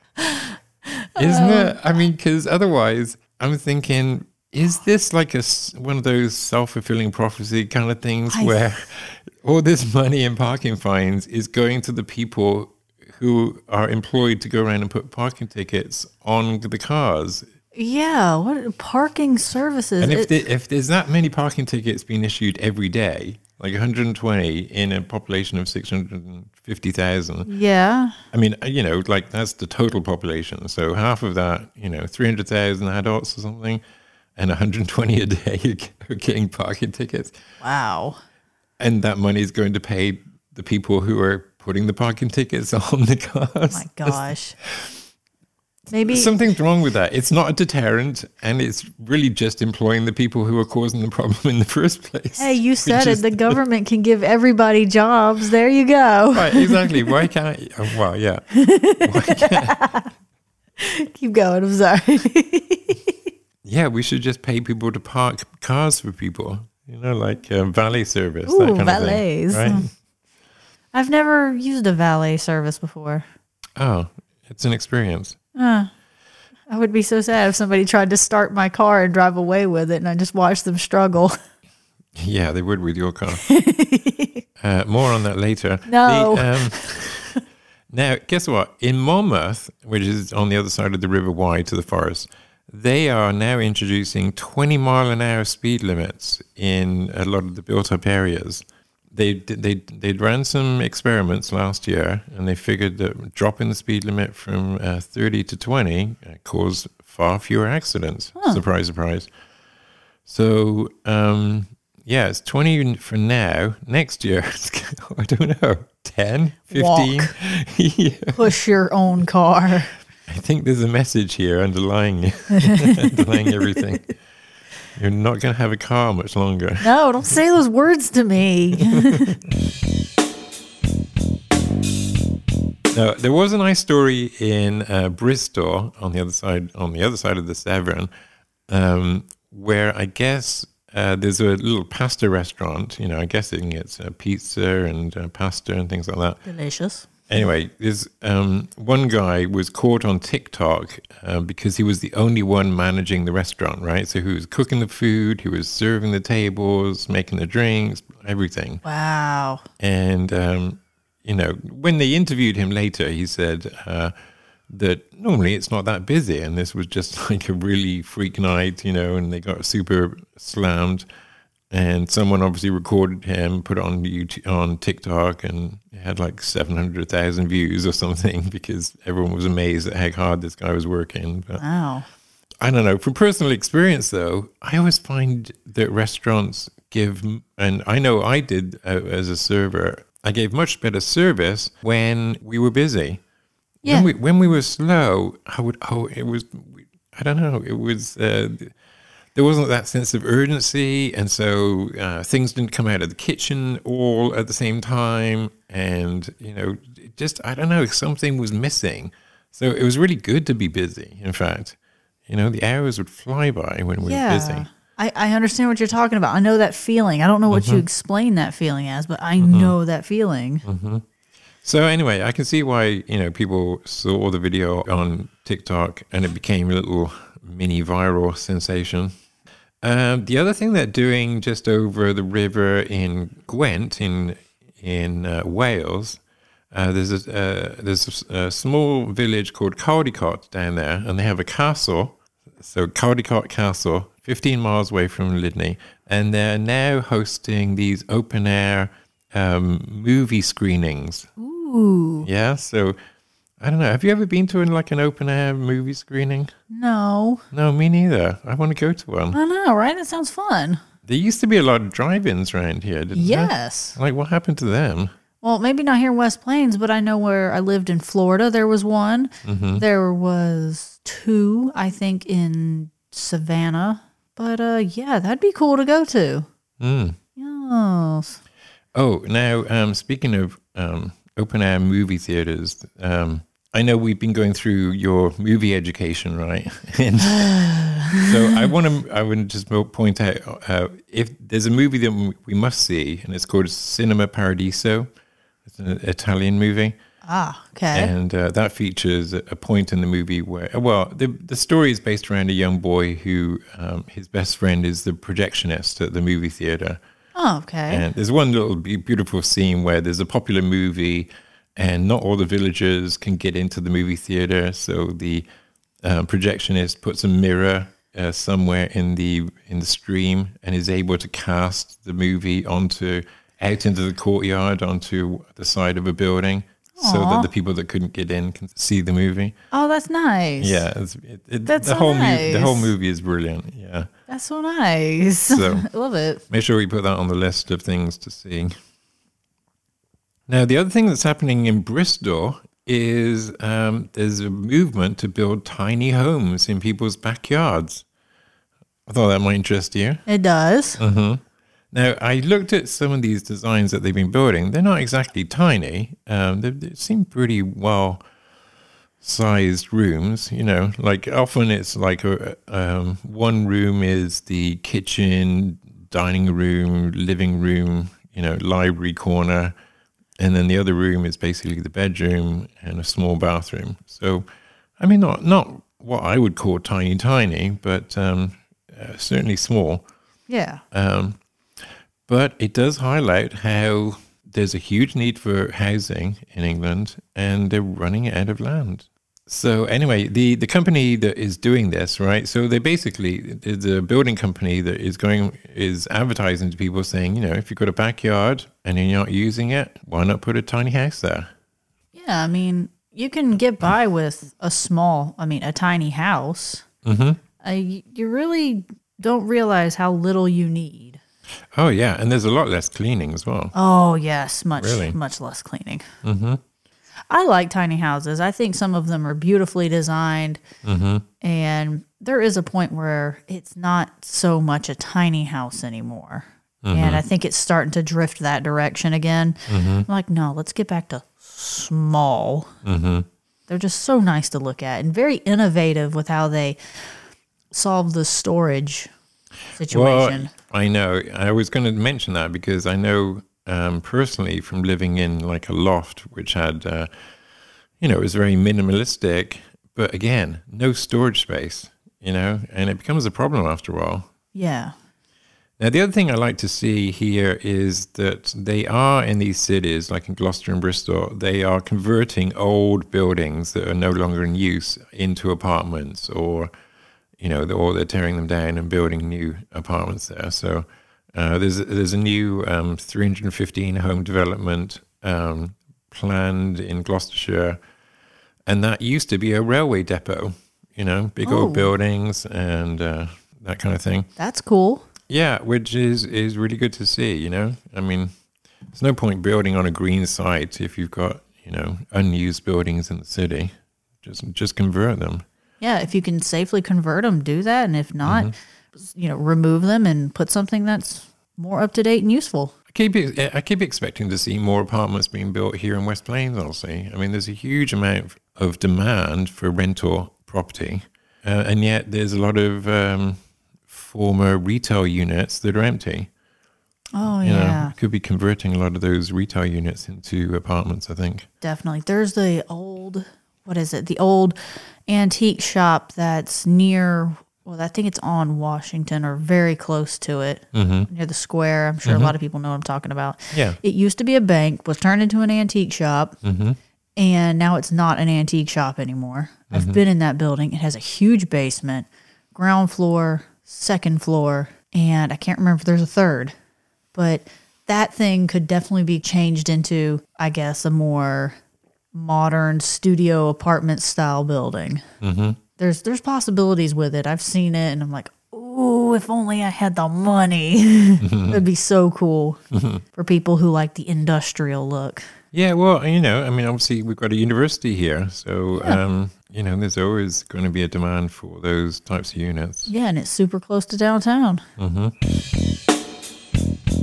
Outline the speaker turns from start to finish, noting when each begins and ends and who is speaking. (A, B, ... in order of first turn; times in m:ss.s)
0:00.2-0:01.8 A
0:01.2-0:17.5 B
0:08.3-0:08.6 A
0:17.7-0:20.3 A
0:20.0-0:27.5 B
0:27.5-0:28.2 A
0:28.3-0:33.8 B
0:34.4-0:37.4 B
0:37.6-0:38.2 A
0:38.8-0:45.0 B
0:43.7-0:44.6 A
0:45.9-0:46.3 A
0:46.0-0:53.6 B
0:52.3-0:57.2 A
0:56.3-0:59.8 B
0:58.5-1:00.1 A
1:00.8-1:03.1 A
1:03.6-1:09.9 B
1:08.4-1:09.9 A
1:10.9-1:13.2 A
1:13.8-1:15.4 B
1:15.5-1:15.9 A
1:16.7-1:21.4 A
1:22.2-1:23.5 B
1:23.4-1:24.4 A
1:24.6-1:27.4 B
1:25.9-1:26.9 A
1:27.9-1:49.3 B
1:50.2-1:58.4 B
1:56.7-1:57.3 A
1:58.3-1:59.9 A
2:00.3-2:04.1 B
2:02.5-2:03.8 A
2:04.9-2:06.8 B
2:06.8-2:09.4 A
2:08.9-2:09.2 B
2:12.9-2:18.1 B
2:18.7-2:26.4 B
2:26.4-2:27.1 A
2:27.3-2:38.8 B
2:38.8-2:39.6 A
2:39.8-2:44.1 B
2:44.7-2:51.1 B
2:51.7-3:01.6 B
3:01.6-3:02.1 A
3:02.6-3:13.2 B
3:13.8-3:14.1 A
3:13.8-3:18.7 B
3:19.3-3:34.6 B
3:34.0-3:40.6 A
3:37.5-3:37.8 B
3:39.4-3:39.7 B
3:40.6-3:41.0 B
3:41.6-3:49.1 B
3:49.8-3:56.2 B
3:56.7-4:11.3 B
4:11.4-4:12.3 A
4:12.2-4:13.0 B
4:13.6-4:16.5 B
4:16.7-4:17.4 A
4:17.5-4:19.4 B
4:19.3-4:20.8 A
4:21.0-4:25.1 B
4:23.1-4:24.0 A
4:25.4-4:36.5 A
4:29.4-4:29.8 B
4:36.8-4:37.2 B
4:37.4-4:38.4 A
4:38.9-4:47.5 B
4:47.2-4:48.7 A
4:48.1-4:55.1 B
4:55.6-4:57.0 B
4:57.2-4:58.1 A
4:57.9-5:07.0 B
5:07.3-5:08.0 A
5:07.9-5:15.4 B
5:16.0-5:29.6 B
5:27.0-5:27.5 A
5:29.7-5:30.8 A
5:30.6-5:34.1 B
5:31.6-5:32.9 A
5:34.3-5:36.4 A
5:35.5-5:35.9 B
5:36.5-5:38.7 B
5:40.5-5:48.0 B
5:49.1-5:50.2 B
5:50.3-5:51.0 A
5:51.0-5:58.2 B
5:59.2-6:09.7 B
6:10.4-6:14.4 B
6:15.0-6:20.0 B
6:20.5-6:20.8 A
6:20.9-6:21.4 B
6:22.3-6:41.5 B
6:42.1-6:46.8 A
6:47.0-6:47.4 B
6:47.6-6:51.2 A
6:51.7-6:53.7 B
6:53.7-6:56.1 A
6:54.8-6:55.2 B
6:56.2-6:56.6 B
6:57.3-7:00.6 A
7:00.8-7:01.2 B
7:01.4-7:12.7 A
7:06.8-7:07.2 B
7:09.7-7:10.0 B
7:12.8-7:13.3 B
7:13.7-7:16.8 A
7:17.7-7:19.1 A
7:19.7-7:20.5 A
7:19.9-7:27.1 B
7:28.0-7:34.3 B
7:34.5-7:34.9 A
7:35.8-7:46.7 B
7:47.4-7:57.8 B
7:58.6-8:04.3 B
8:01.4-8:01.9 A
8:04.4-8:05.1 A
8:05.3-8:08.3 B
8:08.9-8:15.4 B
8:15.8-8:22.7 A
8:18.2-8:18.5 B
8:22.9-8:36.3 B
8:37.2-8:37.9 A
8:37.4-8:41.5 B
8:41.6-8:44.6 A
8:45.1-8:56.4 A
8:50.7-8:51.1 B
8:52.0-8:52.3 B
8:53.5-8:53.8 B
8:56.4-8:56.8 B
8:57.2-9:06.5 A
8:59.7-9:00.0 B
9:07.1-9:11.6 A
9:12.1-9:15.0 A
9:15.2-9:15.6 B
9:15.8-9:22.6 A
9:21.2-9:21.6 B
9:22.7-9:23.0 B
9:23.1-9:25.2 A
9:25.5-9:32.9 B
9:32.9-9:34.6 A
9:34.8-9:35.1 B